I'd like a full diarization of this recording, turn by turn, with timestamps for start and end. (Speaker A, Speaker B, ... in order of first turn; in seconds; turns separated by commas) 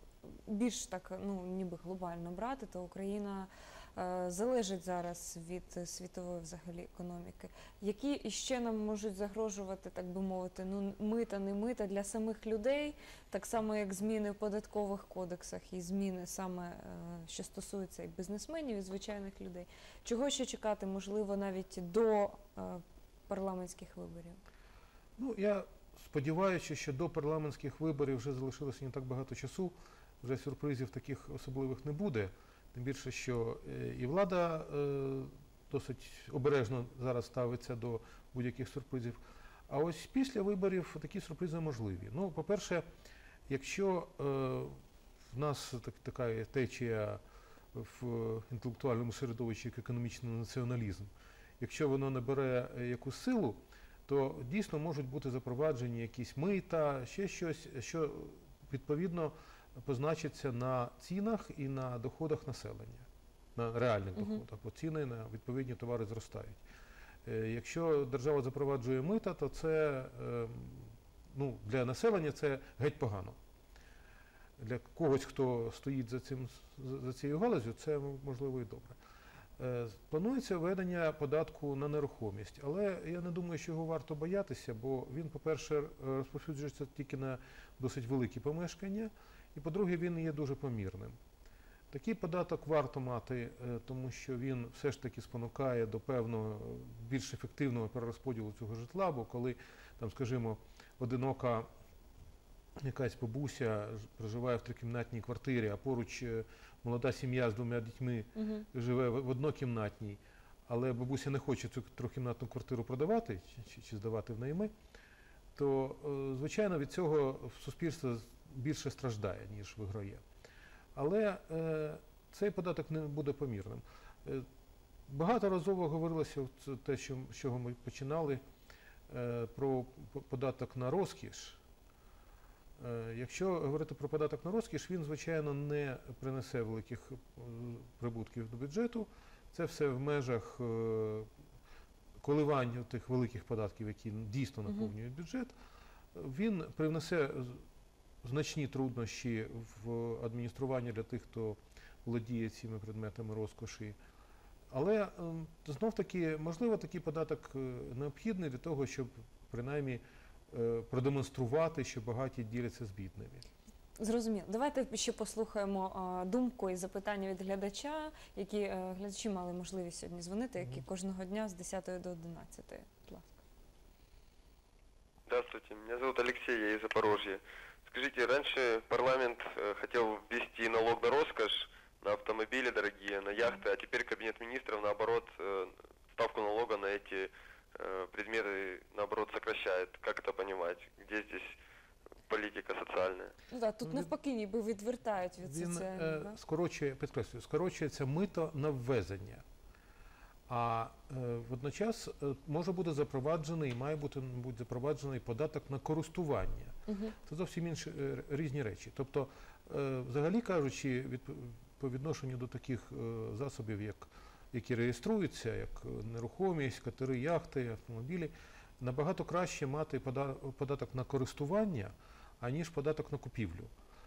Speaker A: 0.2-24.4, Speaker B: 25.2-42.8, Speaker B: 43.5-44.8, Speaker B: 45.3-47.2, Speaker B: 47.7-66.6, Speaker A: 64.2-64.4, Speaker B: 67.2-73.3, Speaker B: 74.6-79.0, Speaker B: 79.6-91.2, Speaker B: 91.9-101.7, Speaker B: 102.8-114.7, Speaker A: 108.3-108.7, Speaker B: 115.5-120.2, Speaker B: 120.9-124.5, Speaker B: 125.1-128.4, Speaker B: 129.1-131.6, Speaker B: 132.8-141.3, Speaker B: 142.2-145.5, Speaker B: 146.1-147.6, Speaker B: 148.2-154.0, Speaker B: 154.7-163.4, Speaker A: 164.0-173.4, Speaker C: 175.3-191.5, Speaker C: 192.3-193.3, Speaker A: 193.5-196.4, Speaker B: 193.8-194.1, Speaker B: 195.4-199.4, Speaker B: 200.5-223.7, Speaker A: 206.9-207.1